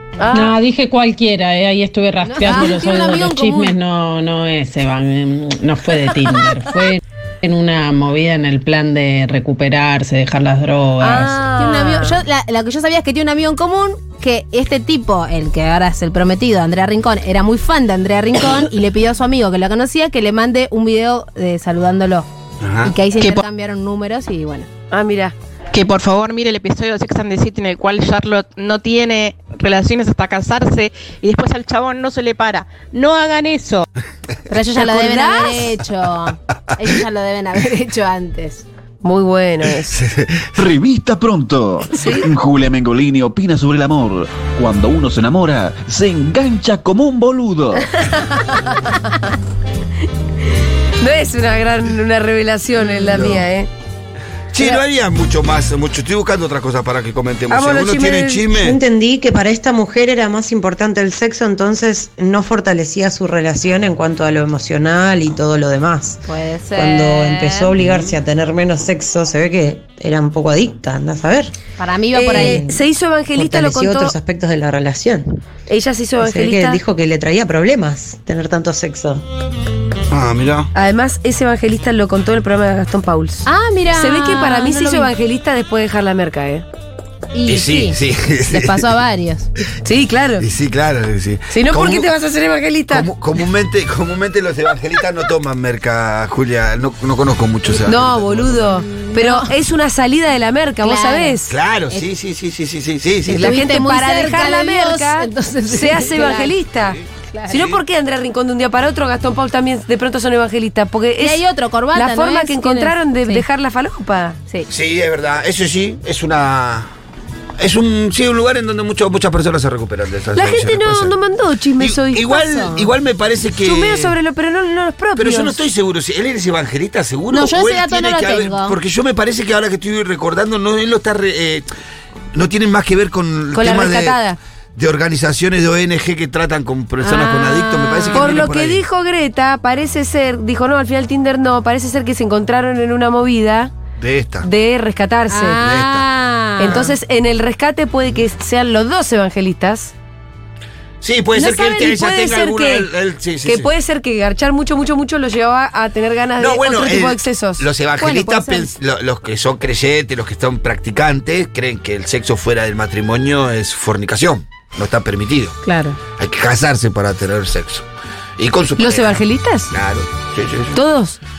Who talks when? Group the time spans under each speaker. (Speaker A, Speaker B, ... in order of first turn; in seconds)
Speaker A: 0.2-0.6, 2.5-2.7, 11.0-12.2, 24.9-25.3, 34.8-35.7, 39.0-40.0, 42.0-42.3, 51.0-53.7, 57.5-58.5, 72.1-74.1, 75.7-76.8, 80.7-86.7, 89.8-90.4, 91.5-93.1, 97.8-101.5, 103.3-107.0, 107.5-114.4, 120.3-122.4, 123.6-125.6, 133.5-134.4, 138.1-143.7, 144.4-145.6, 146.6-149.9, 151.4-152.9, 153.4-157.7, 168.8-169.7, 170.7-171.2
Speaker B: 0.3-11.4
Speaker C: 2.2-3.8, 11.0-22.3, 22.8-24.7, 34.5-38.6, 66.3-67.8, 71.8-72.7, 83.5-85.1, 87.3-88.0, 88.5-89.5, 98.9-99.5, 100.8-101.4, 103.3-106.5, 107.3-107.6, 111.2-113.5, 122.3-122.9, 127.3-128.8, 137.0-138.4, 145.3-146.9, 158.0-158.7, 165.7-166.0
Speaker D: 22.6-22.9, 40.0-40.4, 52.8-53.5, 54.5-58.8, 80.1-80.7, 87.5-88.9, 90.4-92.1, 92.9-98.7, 101.5-103.6, 114.7-116.9, 117.6-121.2, 121.8-124.1, 125.2-131.7, 132.3-134.2, 134.8-138.8, 144.0-144.5, 145.6-146.1, 151.0-153.7, 156.4-165.6, 166.2-167.8, 168.4-170.8
Speaker E: 23.2-23.4, 25.7-33.8
Speaker F: 40.5-47.9
Speaker G: 58.5-66.2, 66.8-71.5, 72.3-75.4, 76.2-79.2